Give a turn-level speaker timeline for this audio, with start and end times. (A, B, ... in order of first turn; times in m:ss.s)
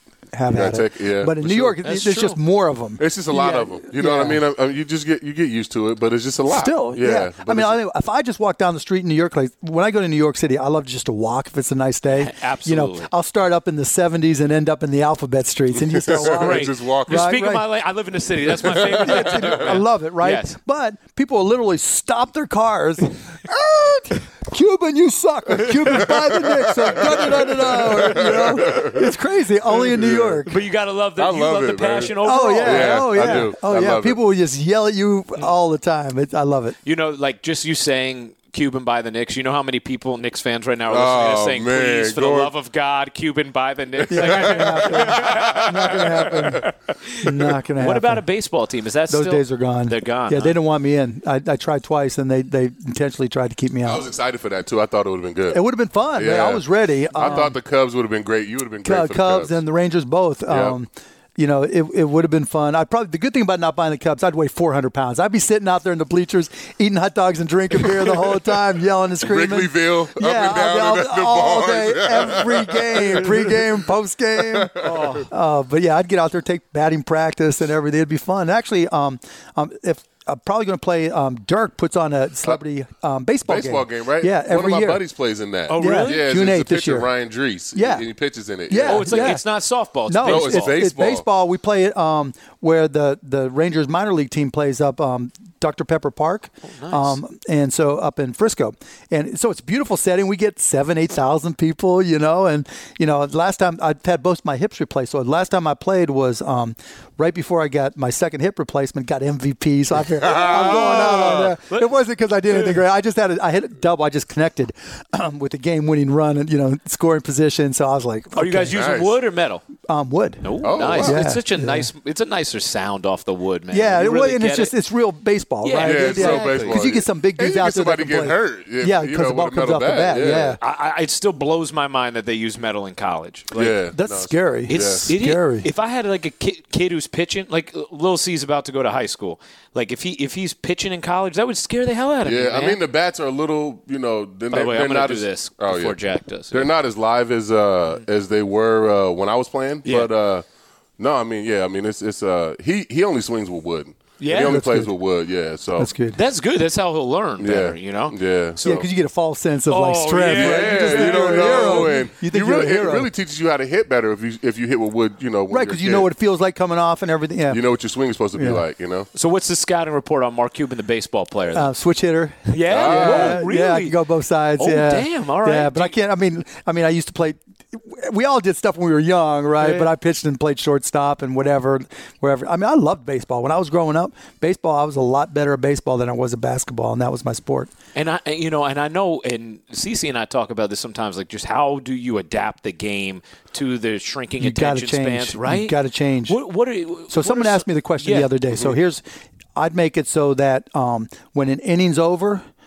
0:00.3-0:04.4 A
0:00.5-0:01.8 B
0:01.8-0:02.4 C
0:03.0-0:07.8 B
0:06.5-0:17.7 A
0:12.1-0:13.1 C
0:15.8-0:17.4 B
0:16.2-0:20.6 C
0:18.6-0:19.8 B
0:18.7-0:30.6 A
0:25.7-0:29.1 B
0:29.8-0:30.4 B
0:30.5-0:33.5 C
0:31.2-0:34.2 B
0:32.2-0:36.8 A
0:36.8-0:50.6 C
0:40.9-0:42.5 B
0:44.1-0:46.7 A
0:44.2-0:46.6 B
0:47.2-0:48.2 A
0:49.1-0:54.1 A
0:53.8-0:55.6 B
0:55.5-0:57.6 A
0:56.2-0:59.6 B
0:58.8-1:25.0 A
1:00.5-1:00.8 B
1:09.2-1:13.6 B
1:14.4-1:15.1 B
1:14.8-1:15.3 C
1:23.5-1:29.4 B
1:25.7-1:26.2 C
1:25.8-1:27.1 A
1:27.8-1:28.0 A
1:28.7-1:29.4 A
1:28.9-1:30.8 C
1:30.1-1:58.8 A
1:30.2-1:31.2 B
1:36.7-1:37.2 C
1:50.1-1:51.6 B
1:50.8-1:51.9 C
1:58.4-1:59.7 C
1:58.7-1:59.1 B
1:59.9-2:01.9 A
2:00.4-2:04.7 C
2:00.6-2:01.2 B
2:03.7-2:10.6 A
2:05.6-2:06.8 C
2:05.8-2:10.6 B
2:10.6-2:13.8 C
2:13.5-2:15.1 B
2:13.9-2:15.7 A
2:14.7-2:22.8 C
2:22.2-2:26.0 B
2:24.5-2:26.7 C
2:26.5-2:30.4 B
2:29.8-2:30.1 C
2:31.0-2:35.9 B
2:34.2-2:34.6 C
2:34.3-2:34.9 A
2:35.8-2:36.2 A
2:36.1-2:38.8 C
2:37.4-2:38.8 B
2:38.6-2:43.1 A
2:39.7-2:42.0 C
2:40.3-2:46.1 B
2:45.5-2:47.6 A
2:47.5-2:49.1 B
2:48.4-2:48.6 A
2:49.1-2:51.7 C
2:51.5-3:07.7 A
2:52.5-2:54.0 C
2:52.7-2:53.4 B
2:54.6-2:56.0 C
2:59.6-2:59.9 C
3:08.0-3:18.3 C
3:14.4-3:16.4 A
3:17.1-3:19.0 A
3:19.6-3:22.4 A